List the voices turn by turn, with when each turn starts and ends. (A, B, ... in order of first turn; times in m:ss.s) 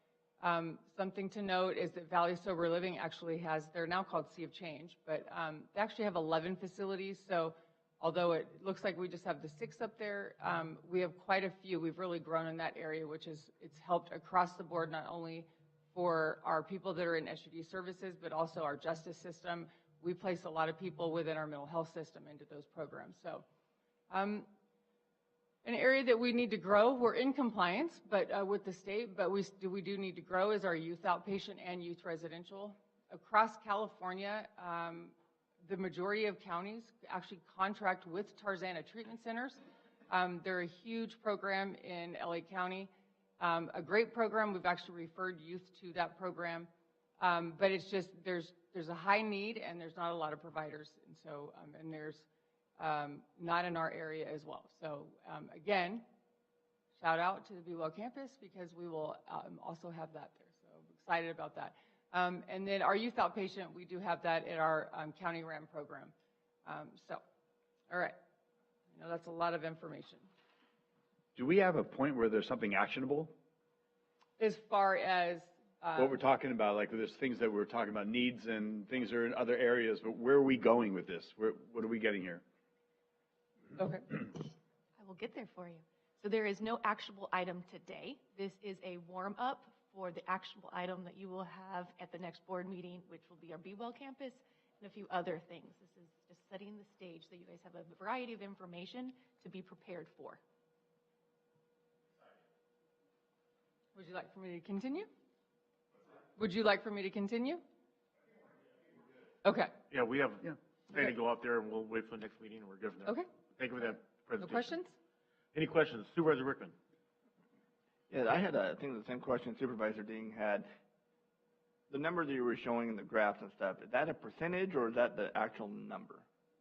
0:00.4-0:23.4 A
0:24.1-0:24.5 A
0:25.6-0:52.3 A
0:52.8-0:56.0 A
0:57.0-1:06.1 A
1:06.6-1:07.2 A
1:07.9-1:08.2 A
1:08.9-1:10.3 A
1:11.4-1:13.3 B
1:14.4-1:16.2 A
1:16.0-1:22.4 B
1:23.8-1:24.2 A
1:25.0-1:40.4 C
1:44.0-1:45.1 A
1:46.4-1:47.6 A
1:49.4-1:49.8 A
1:49.9-1:54.7 D
1:54.4-1:55.0 A
1:55.5-1:56.8 D
1:58.1-2:00.7 E
2:01.9-2:06.2 E